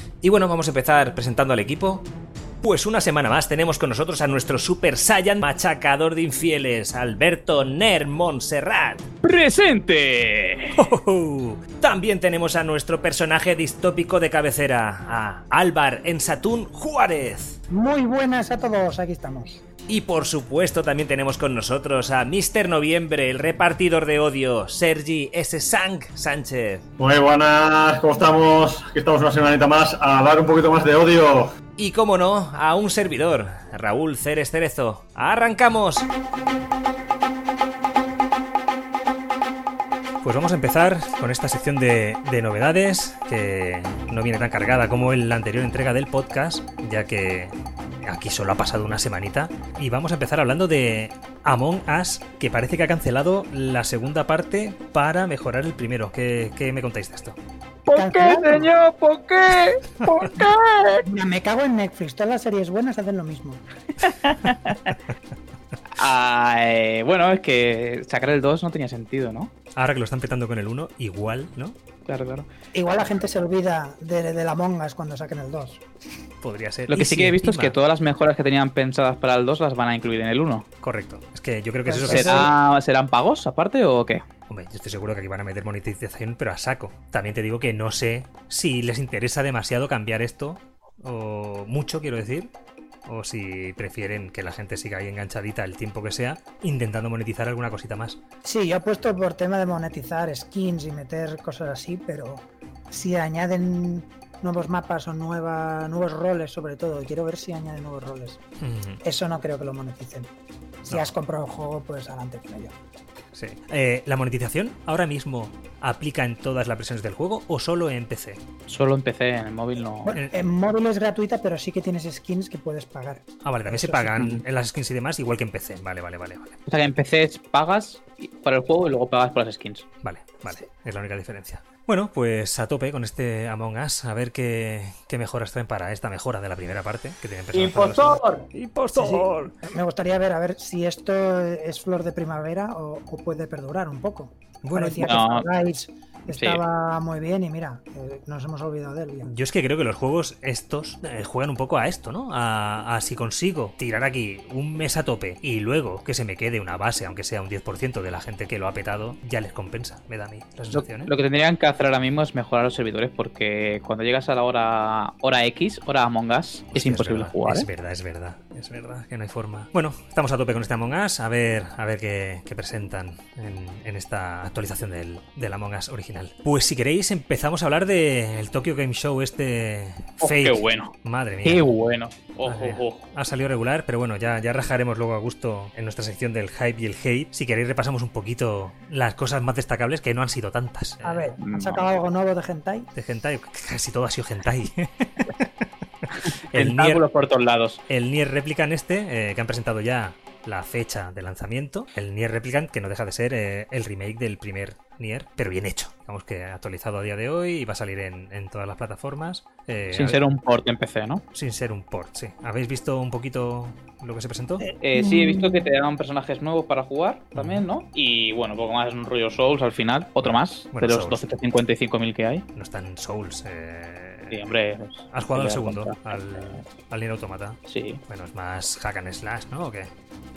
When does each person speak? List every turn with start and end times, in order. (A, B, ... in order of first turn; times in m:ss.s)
0:00.2-0:02.0 A
0:02.6-0:09.0 A
0:09.2-0:10.9 B
0:10.8-0:11.6 C
0:11.7-0:17.6 A
0:17.7-0:19.6 D
0:19.9-0:26.8 A
0:27.0-0:31.6 E
0:31.8-0:36.1 A
0:40.2-0:57.4 C
0:57.8-1:01.1 B
0:57.9-0:58.7 D
1:01.0-1:03.6 D
1:04.0-1:04.9 B
1:06.0-1:09.5 B
1:09.7-1:11.7 C
1:12.0-1:12.5 B
1:12.7-1:15.8 D
1:16.4-1:17.7 C
1:16.9-1:20.7 B
1:20.8-1:22.5 C
1:21.8-1:22.5 D
1:22.1-1:24.2 B
1:24.5-1:32.5 C
1:33.0-1:38.2 C
1:38.4-1:48.4 D
1:48.6-1:49.0 C
1:49.0-1:50.3 D
1:50.8-1:52.7 D
1:53.3-1:58.4 C
1:58.7-2:00.2 B
2:00.0-2:04.2 D
2:03.4-2:06.6 C
2:06.7-2:09.8 B
2:10.0-2:19.5 C
2:17.5-2:18.5 B
2:18.9-2:29.3 D
2:24.6-2:25.1 C
2:25.0-2:25.4 B
2:26.3-2:26.6 B
2:29.3-2:41.1 C
2:40.7-2:47.7 B
2:46.7-3:01.7 C
3:00.2-3:03.1 B
3:02.4-3:11.2 C
3:11.0-3:12.9 D
3:11.4-3:11.8 B
3:13.0-3:15.5 C
3:16.2-3:17.8 B
3:16.5-3:17.0 C
3:17.9-3:30.2 C
3:29.9-3:31.2 B
3:31.3-3:34.7 C
3:34.6-3:35.7 D
3:34.8-3:42.4 B
3:37.3-3:37.6 C
3:40.2-3:41.2 C
3:42.6-3:44.4 C
3:44.3-3:46.6 B
3:45.1-3:49.9 C
3:47.7-3:48.0 B